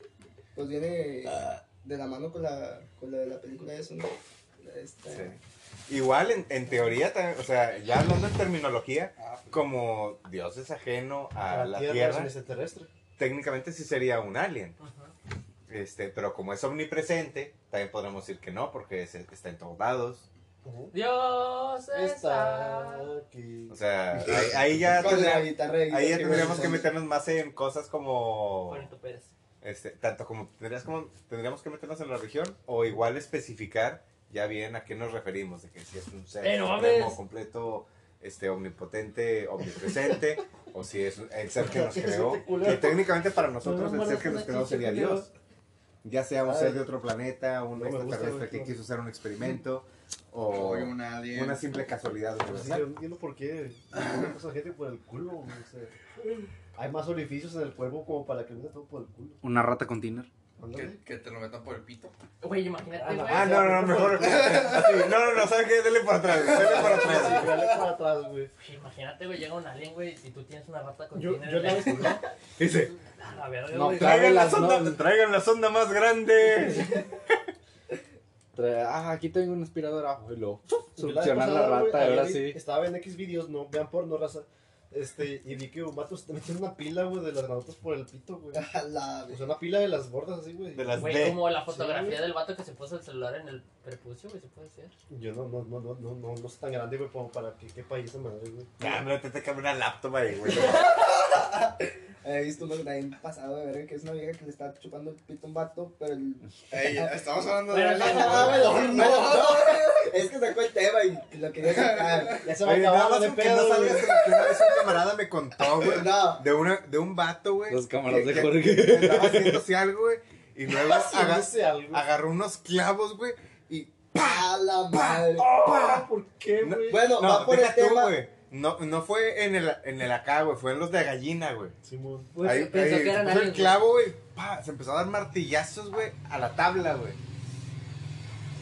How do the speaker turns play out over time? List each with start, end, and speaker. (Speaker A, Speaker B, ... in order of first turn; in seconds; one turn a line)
Speaker A: 0.5-5.3
Speaker B: 5.1-12.3
Speaker C: 9.2-9.6
Speaker D: 11.5-12.9
Speaker B: 13.2-14.8
Speaker E: 14.8-15.1
Speaker B: 15.7-20.3
Speaker D: 20.6-20.9
Speaker E: 20.9-23.1
Speaker D: 21.9-24.9
Speaker B: 23.7-28.9
Speaker A: 24.9-26.9
Speaker D: 26.2-26.8
Speaker E: 28.7-29.3
Speaker B: 29.6-45.3
Speaker E: 36.4-37.2
Speaker D: 41.6-43.1
Speaker D: 43.6-45.0
Speaker E: 43.9-45.2
Speaker B: 46.0-52.9
Speaker D: 46.4-46.9
Speaker D: 47.7-48.7
Speaker C: 50.5-51.7
Speaker D: 52.5-59.4
Speaker F: 59.4-60.3
Speaker D: 60.6-61.0
Speaker C: 60.7-62.1
Speaker E: 62.4-63.9
Speaker D: 63.0-65.0
Speaker B: 63.2-67.8
Speaker D: 66.4-68.5
Speaker E: 68.6-72.2
Speaker D: 71.1-72.2
Speaker B: 72.6-73.0
Speaker E: 73.2-74.3
Speaker F: 73.7-75.0
Speaker B: 74.0-77.0
Speaker F: 78.5-82.6
Speaker D: 81.0-88.7
Speaker A: 88.5-89.5
Speaker D: 89.3-92.3
Speaker B: 90.7-91.5
Speaker E: 91.0-94.9
Speaker D: 95.1-99.0
Speaker B: 98.8-101.0
Speaker A: 100.5-112.5
Speaker C: 106.7-109.8
Speaker E: 107.7-108.8
Speaker D: 107.7-108.8
Speaker C: 111.7-112.0
Speaker D: 112.4-114.1
Speaker B: 112.6-126.0
Speaker A: 113.9-114.6
Speaker A: 115.6-116.4
Speaker F: 117.7-119.6
Speaker D: 120.7-122.0
Speaker A: 124.1-125.5
Speaker D: 125.5-127.0
Speaker B: 126.6-131.8
Speaker A: 126.9-128.1
Speaker D: 131.8-132.3
Speaker E: 132.3-133.8
Speaker B: 132.4-137.2